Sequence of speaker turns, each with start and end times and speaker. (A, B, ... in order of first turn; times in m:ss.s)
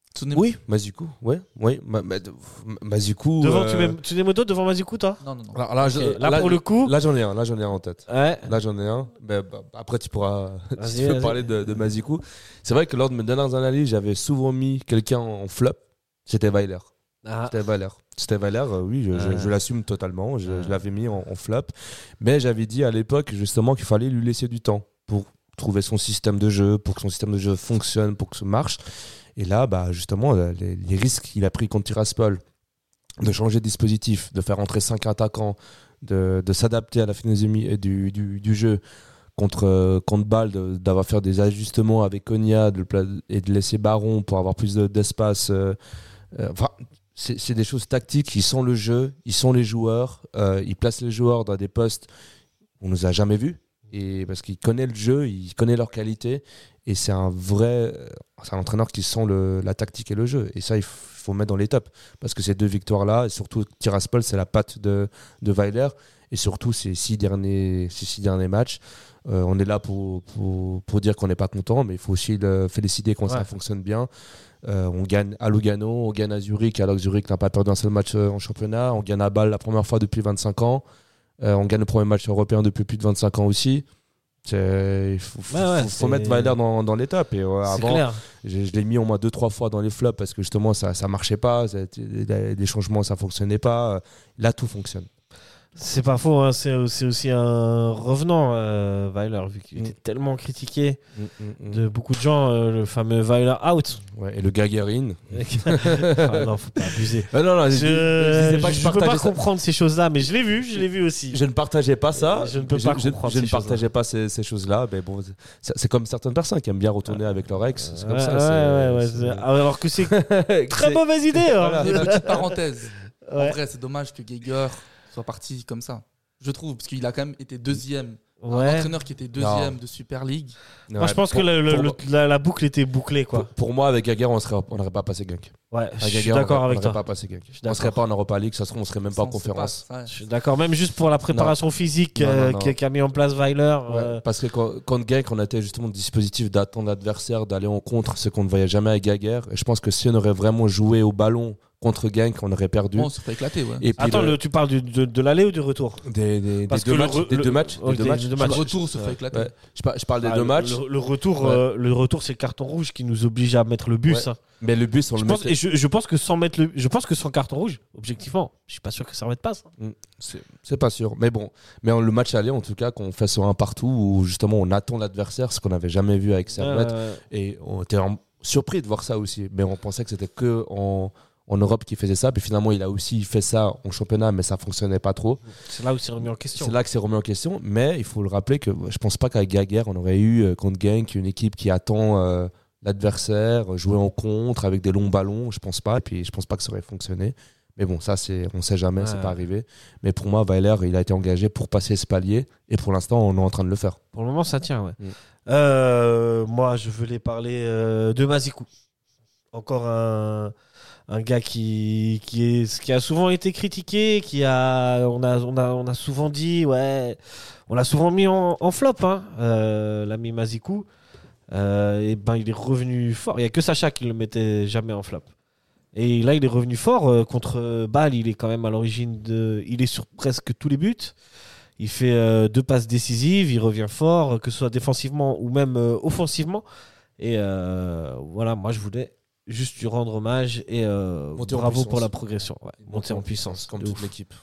0:00.1-0:00.5 A
0:00.3-0:04.0 B
0:03.4-0:05.2 C
0:05.2-0:05.7 A
0:05.5-0:16.9 B
0:05.8-0:06.9 C
0:08.1-0:08.5 C
0:10.8-0:11.7 C
0:17.2-0:17.6 C
0:17.4-0:28.8 B
0:19.1-0:19.5 C
0:20.4-0:20.8 C
0:29.4-0:32.4 B
0:33.2-0:38.8 B
0:39.4-0:45.8 B
0:46.3-0:52.1 B
0:52.8-1:14.1 B
1:14.6-1:20.8 B
1:21.4-1:23.8 B
1:24.4-1:35.1 B
1:25.5-1:26.6 C
1:27.6-1:28.2 C
1:35.8-1:41.0 C
1:41.2-1:41.8 B
1:41.7-1:44.0 C
1:44.1-1:46.5 B
1:45.3-1:51.4 C
1:47.3-1:49.4 B
1:51.3-2:02.4 B
1:52.1-1:53.8 C
1:57.1-2:02.4 C
2:01.7-2:10.6 A
2:03.2-2:03.6 C
2:08.4-2:08.9 C
2:09.4-2:09.8 B
2:10.9-2:12.0 B
2:11.0-2:13.5 C
2:13.3-2:19.8 B
2:15.7-2:18.0 C
2:19.0-2:20.2 A
2:20.1-2:24.2 C
2:21.3-2:21.6 B
2:22.1-2:22.8 B
2:23.9-2:33.1 B
2:33.0-2:33.9 A
2:33.8-2:34.4 B
2:34.0-2:36.0 C
2:36.0-2:40.8 B
2:36.7-2:38.6 C
2:38.4-2:39.5 A
2:40.2-2:44.4 C
2:41.4-2:41.6 B
2:44.0-2:45.6 B
2:45.1-2:49.7 C
2:49.8-3:05.4 B
2:56.5-2:57.2 C
3:05.5-3:06.8 C
3:06.5-3:24.0 B
3:19.0-3:19.4 C
3:24.1-3:28.7 C
3:29.5-3:30.5 C
3:31.1-3:40.9 C
3:41.5-3:45.3 C
3:45.9-3:51.2 C
3:51.8-3:56.6 C
3:57.2-4:04.1 C
4:01.4-4:02.1 B
4:02.8-4:04.3 B